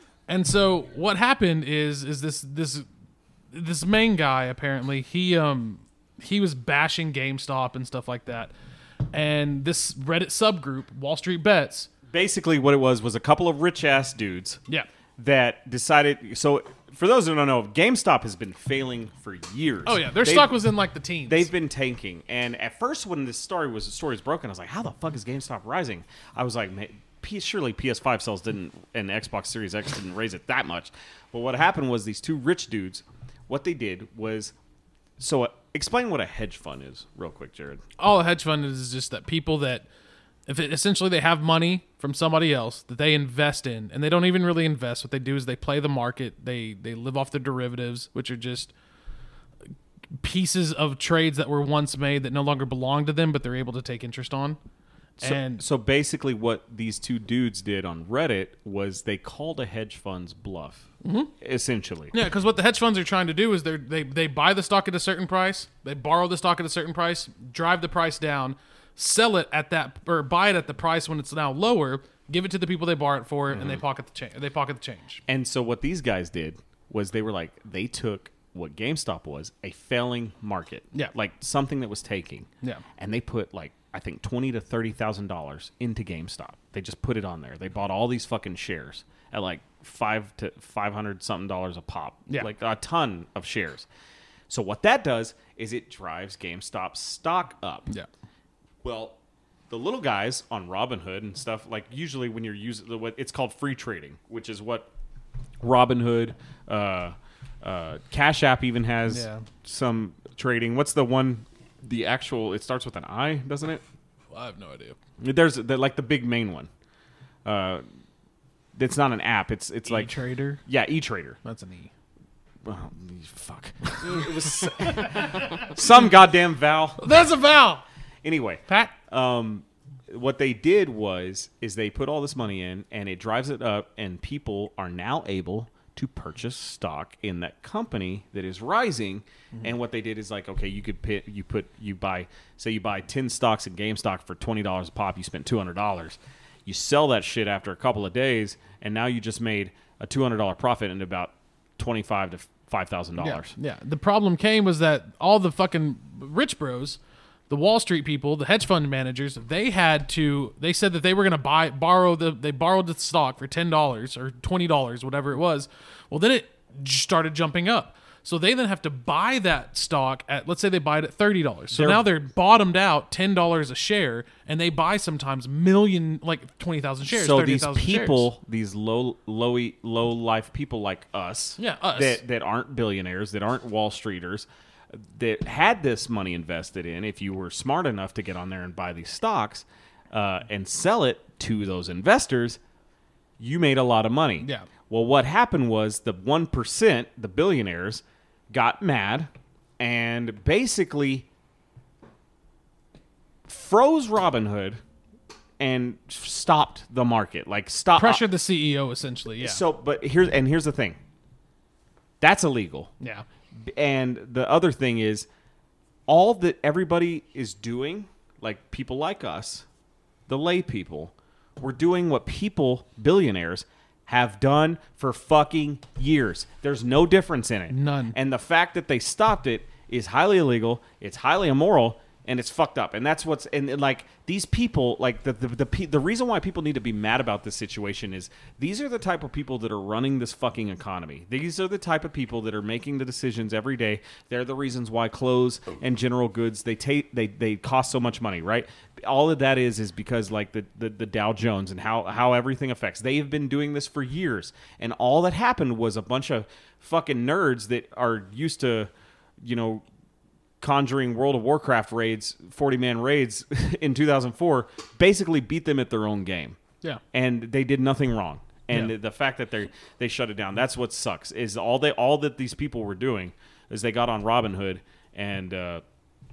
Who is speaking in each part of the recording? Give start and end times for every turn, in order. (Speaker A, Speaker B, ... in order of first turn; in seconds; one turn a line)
Speaker A: 0.3-2.9
Speaker A: 3.5-8.5
Speaker A: 9.1-11.9
Speaker B: 12.1-14.6
Speaker B: 15.2-20.6
Speaker A: 19.9-21.5
Speaker B: 21.3-34.5
Speaker B: 35.2-37.8
Speaker A: 38.0-39.9
Speaker A: 40.5-48.7
Speaker A: 50.2-54.6
Speaker A: 55.2-55.6
Speaker B: 55.2-60.9
Speaker A: 61.0-61.3
Speaker B: 61.4-62.1
Speaker A: 62.1-75.2
Speaker B: 73.5-73.8
Speaker B: 75.3-93.9
Speaker B: 94.5-97.9
Speaker B: 98.8-99.2
Speaker B: 99.7-104.9
Speaker B: 105.6-113.8
Speaker A: 109.1-109.4
Speaker A: 114.3-115.0
Speaker B: 115.2-116.7
Speaker B: 117.4-117.8
Speaker B: 118.7-120.1
Speaker A: 119.9-120.6
Speaker B: 120.7-121.4
Speaker A: 121.4-121.9
Speaker B: 122.6-127.0
Speaker A: 124.0-125.7
Speaker A: 127.0-127.8
Speaker B: 128.2-153.5
Speaker A: 128.7-128.9
Speaker A: 153.2-178.3
Speaker B: 171.7-172.1
Speaker B: 177.1-192.6
Speaker A: 181.6-182.2
Speaker B: 193.4-201.2
Speaker A: 194.4-194.7
Speaker B: 203.5-204.8
Speaker B: 205.6-208.2
Speaker A: 207.9-209.6
Speaker B: 209.4-211.0
Speaker B: 212.2-212.9
Speaker B: 213.7-215.3
Speaker B: 216.1-219.6
Speaker B: 220.3-259.8
Speaker A: 227.7-228.1
Speaker B: 260.6-266.6
Speaker B: 267.1-275.8